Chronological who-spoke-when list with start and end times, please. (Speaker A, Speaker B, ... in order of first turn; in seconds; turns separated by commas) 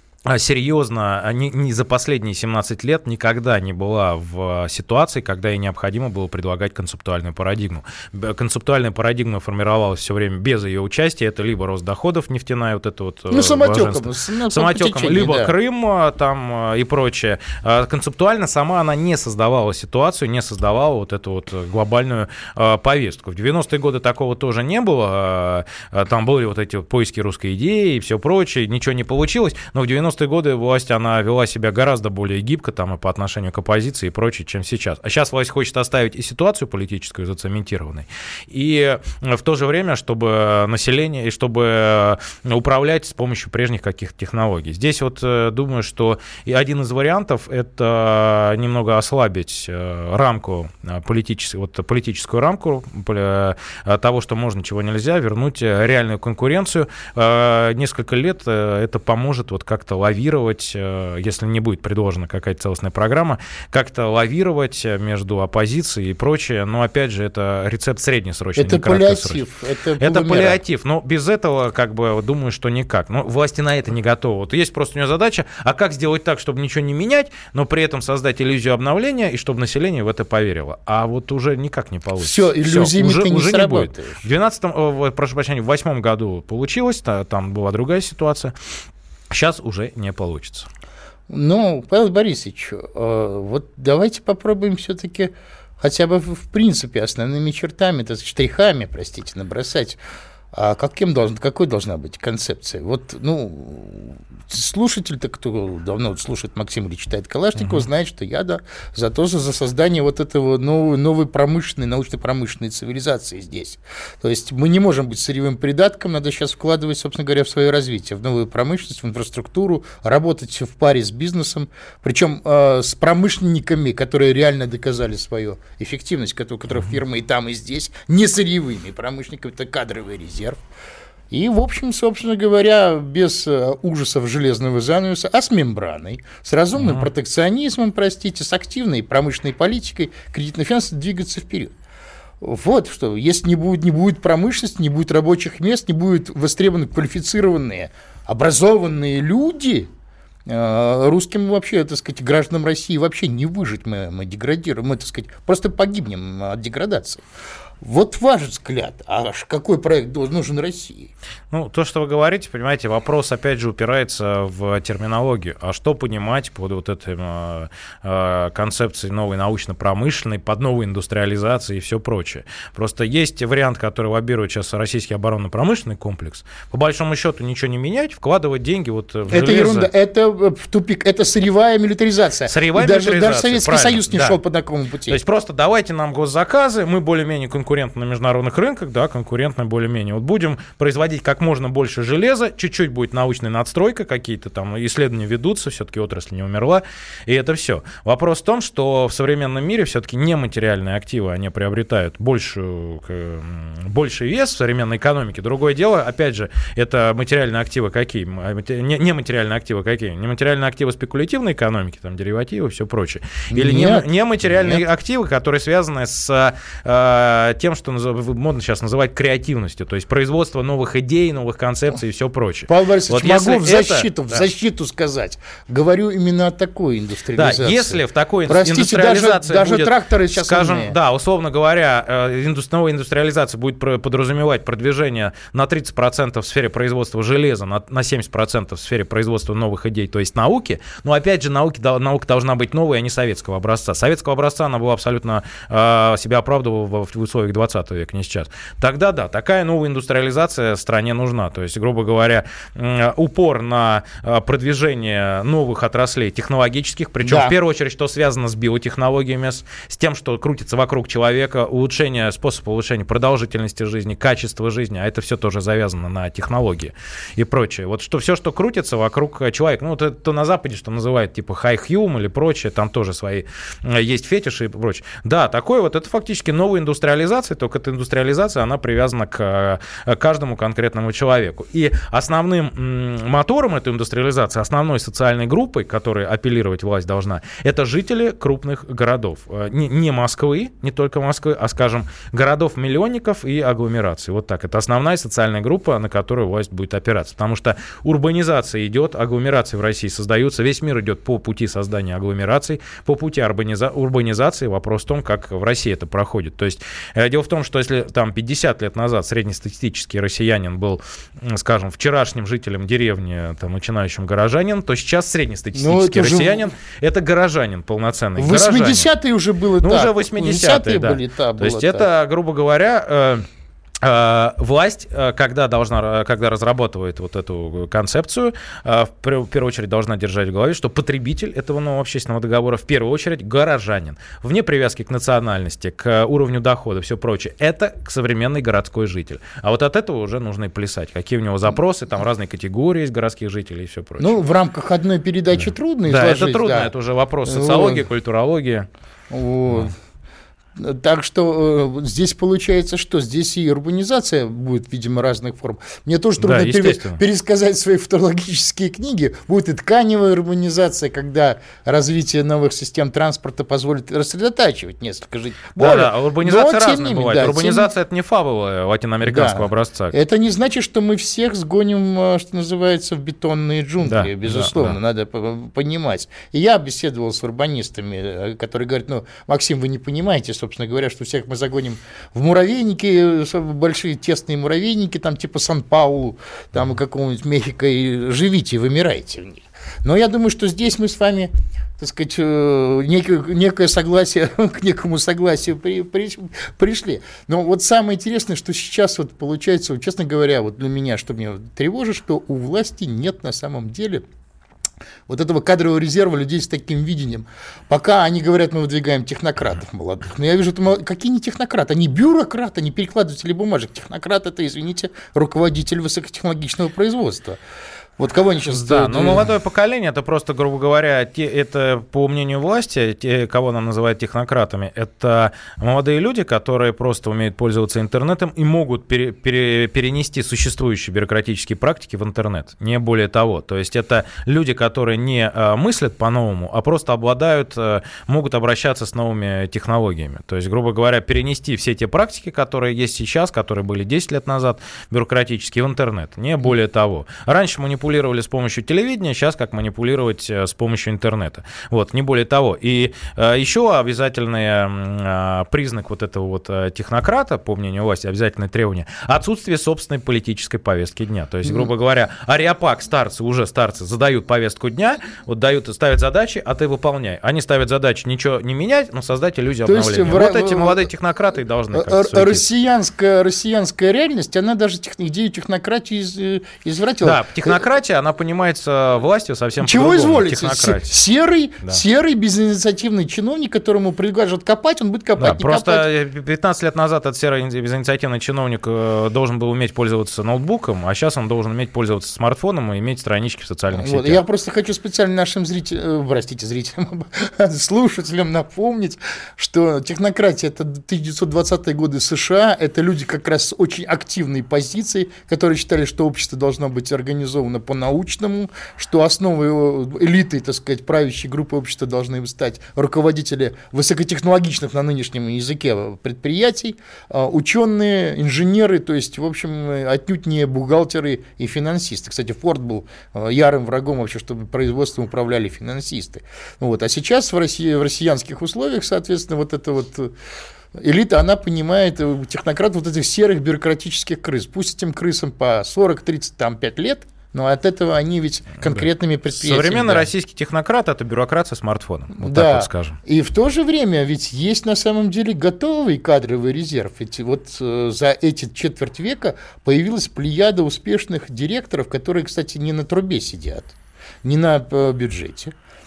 Speaker A: 0.2-69.4, Speaker B: 13.3-15.5, Speaker B: 68.5-70.6, Speaker A: 70.0-88.5, Speaker B: 82.2-84.2, Speaker A: 89.3-90.7, Speaker B: 91.3-100.0, Speaker B: 100.5-130.6, Speaker A: 107.6-107.9, Speaker B: 131.3-141.7, Speaker A: 136.8-137.1, Speaker B: 142.4-149.9, Speaker B: 150.5-157.2, Speaker B: 157.8-161.1, Speaker A: 161.5-179.9, Speaker B: 179.3-185.2, Speaker A: 182.5-184.4, Speaker A: 185.1-224.4, Speaker B: 213.5-214.1, Speaker B: 222.7-230.9, Speaker A: 227.3-319.1, Speaker B: 257.2-257.5, Speaker B: 315.7-316.7, Speaker B: 318.4-322.1, Speaker A: 319.8-323.4, Speaker A: 324.0-344.4, Speaker B: 344.2-346.9, Speaker A: 346.1-348.9, Speaker B: 347.4-348.0, Speaker B: 349.3-349.9, Speaker B: 350.8-367.9, Speaker A: 356.4-357.2, Speaker A: 365.8-370.1, Speaker B: 369.2-404.2, Speaker A: 374.0-374.9, Speaker B: 405.3-417.6, Speaker B: 418.2-419.5, Speaker A: 418.7-472.6, Speaker B: 469.8-471.1, Speaker B: 471.9-477.8, Speaker A: 477.2-481.2, Speaker B: 479.8-486.1, Speaker A: 485.4-494.4, Speaker B: 493.9-530.3, Speaker B: 530.9-540.3, Speaker A: 538.8-543.2, Speaker B: 542.4-555.7